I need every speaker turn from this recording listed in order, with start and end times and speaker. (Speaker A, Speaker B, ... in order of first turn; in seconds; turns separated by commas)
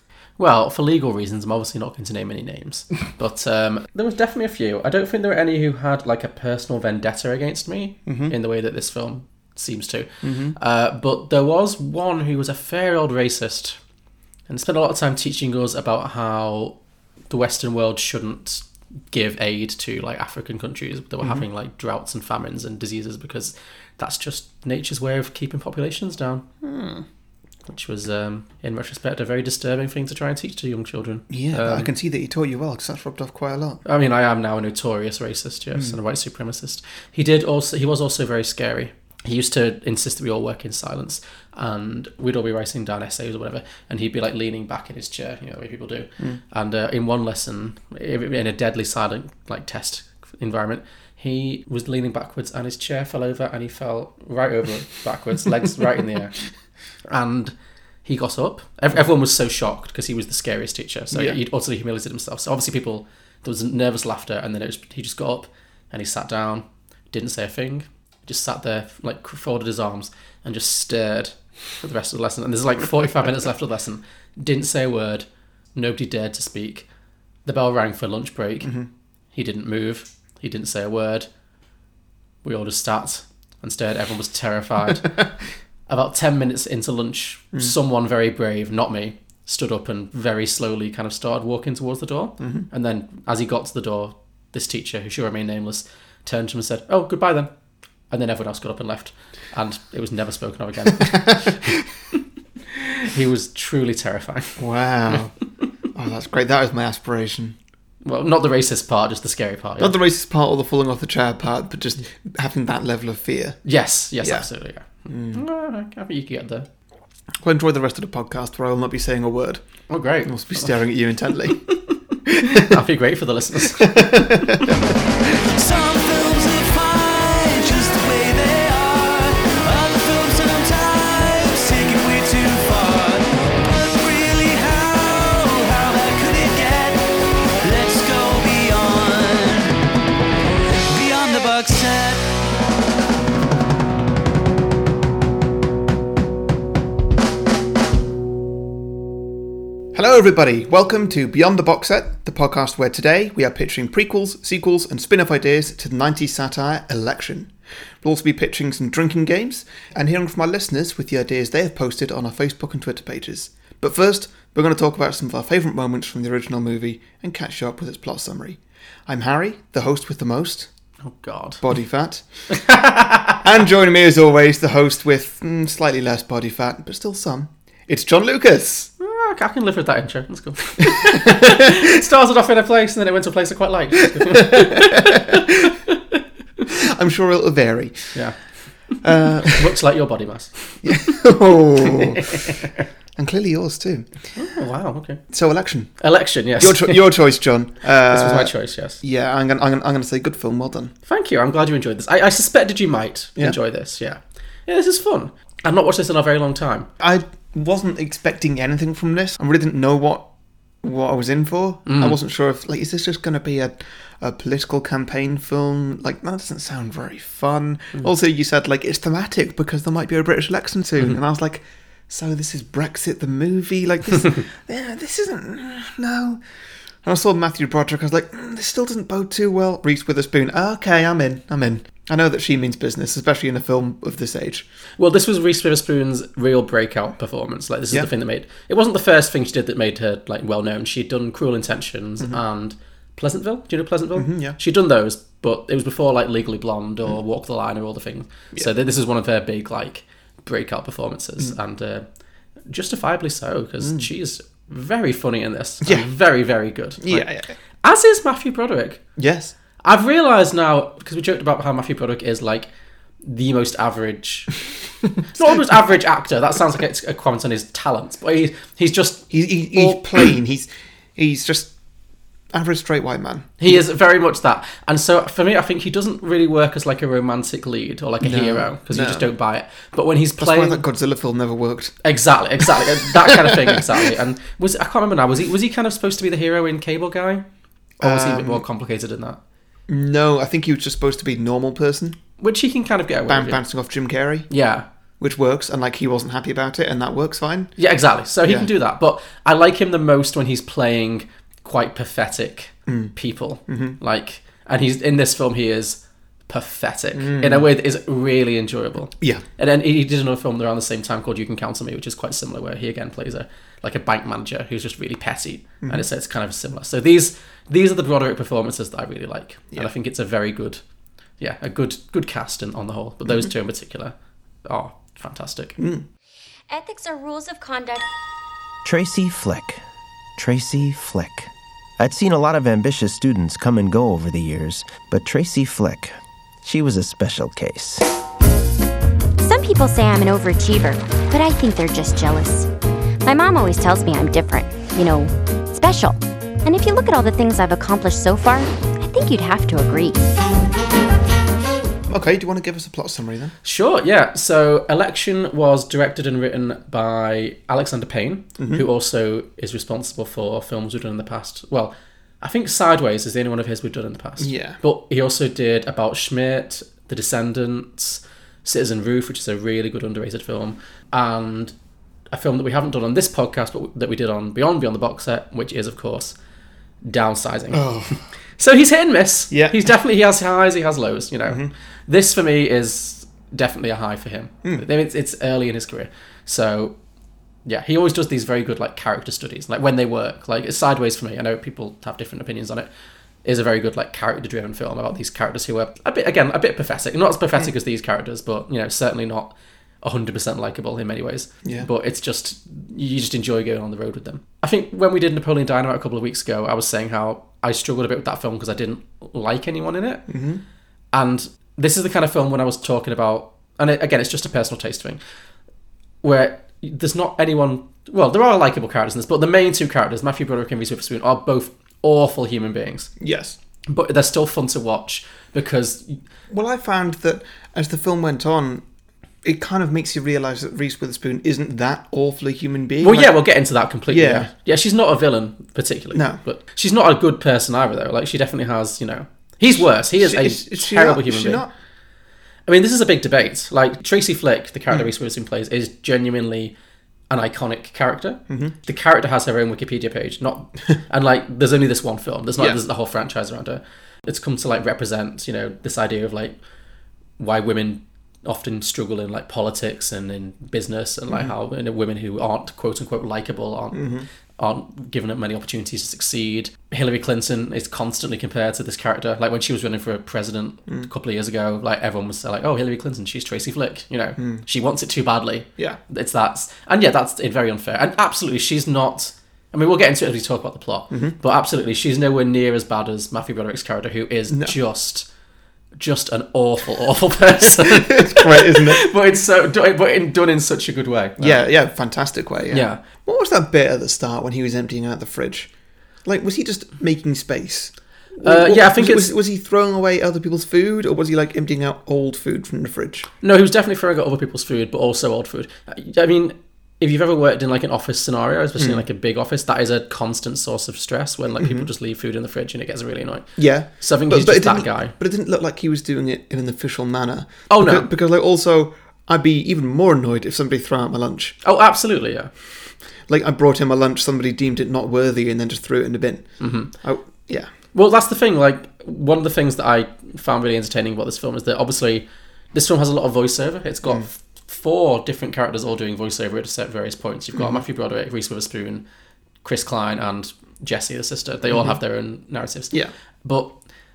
Speaker A: 0.4-13.8, Speaker B: 8.1-8.3, Speaker B: 10.2-10.6, Speaker A: 14.5-16.8, Speaker A: 17.3-26.4, Speaker B: 26.6-27.0, Speaker A: 27.7-31.9, Speaker B: 31.3-33.8, Speaker A: 33.9-56.4, Speaker A: 57.1-57.5, Speaker A: 58.0-76.9, Speaker A: 77.5-78.8, Speaker A: 79.3-81.3, Speaker A: 82.4-85.3, Speaker A: 85.9-97.5, Speaker B: 92.4-92.7, Speaker A: 98.1-101.7, Speaker A: 103.0-104.6, Speaker B: 104.6-105.3, Speaker B: 105.9-107.6, Speaker A: 108.0-110.0, Speaker B: 109.8-113.6, Speaker A: 113.7-116.7, Speaker B: 115.1-115.4, Speaker B: 117.4-119.6, Speaker A: 119.9-120.7, Speaker B: 120.3-121.6, Speaker A: 121.5-124.6, Speaker B: 122.3-122.7, Speaker B: 123.8-124.7, Speaker C: 125.4-139.8, Speaker C: 140.9-142.3, Speaker B: 149.9-170.7, Speaker A: 171.0-171.6, Speaker B: 171.6-172.2, Speaker A: 172.5-173.4, Speaker B: 173.4-178.9, Speaker A: 179.0-185.9, Speaker B: 180.8-181.4, Speaker B: 184.2-185.4, Speaker B: 186.7-188.2, Speaker A: 188.1-189.0, Speaker B: 189.0-189.6, Speaker A: 189.5-190.9, Speaker B: 190.8-192.4, Speaker A: 191.9-192.3, Speaker B: 193.2-194.1, Speaker A: 194.3-195.2, Speaker B: 195.3-196.0, Speaker A: 196.0-197.0, Speaker B: 196.6-200.9, Speaker A: 198.1-199.0, Speaker A: 201.1-206.9, Speaker B: 207.0-210.3, Speaker B: 210.8-226.4, Speaker A: 211.9-212.2, Speaker B: 227.0-234.7, Speaker A: 235.0-252.1, Speaker B: 244.2-244.6, Speaker A: 252.7-257.3, Speaker B: 257.0-257.5, Speaker A: 257.8-259.0, Speaker B: 259.2-259.5, Speaker A: 259.8-262.7, Speaker A: 263.2-264.7, Speaker A: 265.3-270.0, Speaker B: 269.3-271.7, Speaker B: 272.5-273.8, Speaker A: 273.6-280.8, Speaker B: 278.2-279.3, Speaker B: 280.4-281.9, Speaker A: 282.0-287.4, Speaker B: 288.0-288.6, Speaker A: 288.0-289.4, Speaker B: 289.9-292.2, Speaker A: 292.4-293.6, Speaker B: 293.3-294.5, Speaker A: 294.5-294.9, Speaker B: 295.2-297.7, Speaker A: 297.8-320.8, Speaker B: 298.4-298.7, Speaker B: 302.9-303.1, Speaker B: 303.7-304.0, Speaker B: 307.1-307.7, Speaker A: 321.4-324.1, Speaker B: 323.2-323.5, Speaker A: 324.7-325.8, Speaker B: 325.8-326.1, Speaker D: 326.7-328.1, Speaker E: 328.8-329.8, Speaker E: 330.4-338.1, Speaker D: 339.4-342.7, Speaker D: 343.2-350.2, Speaker B: 352.1-353.5, Speaker A: 353.6-371.7, Speaker B: 364.4-364.8, Speaker A: 372.3-376.4, Speaker A: 377.0-377.9, Speaker B: 377.7-378.2, Speaker A: 378.6-387.0, Speaker B: 379.5-379.8, Speaker A: 387.6-392.9, Speaker A: 393.4-410.3, Speaker B: 410.3-410.6, Speaker A: 411.1-415.2, Speaker A: 416.2-423.1, Speaker B: 423.2-423.6, Speaker A: 423.9-426.2, Speaker B: 426.5-428.8, Speaker B: 429.4-433.3, Speaker A: 433.0-441.7, Speaker B: 434.1-434.5, Speaker B: 436.1-436.4, Speaker B: 440.2-441.7, Speaker A: 442.7-446.7, Speaker A: 447.3-456.6, Speaker A: 457.4-485.3, Speaker B: 463.9-464.3, Speaker B: 474.4-474.6, Speaker B: 481.1-481.4, Speaker A: 486.0-491.6, Speaker B: 487.9-489.0, Speaker B: 491.4-495.7, Speaker A: 492.7-493.0, Speaker B: 496.2-503.3, Speaker A: 498.4-499.3, Speaker A: 503.4-515.1, Speaker B: 508.8-509.0, Speaker B: 511.6-511.9, Speaker B: 513.6-521.6, Speaker A: 517.7-518.1, Speaker A: 521.6-522.5, Speaker B: 523.3-527.7, Speaker A: 526.6-526.9, Speaker A: 527.9-539.0, Speaker A: 539.6-543.8, Speaker B: 541.7-542.0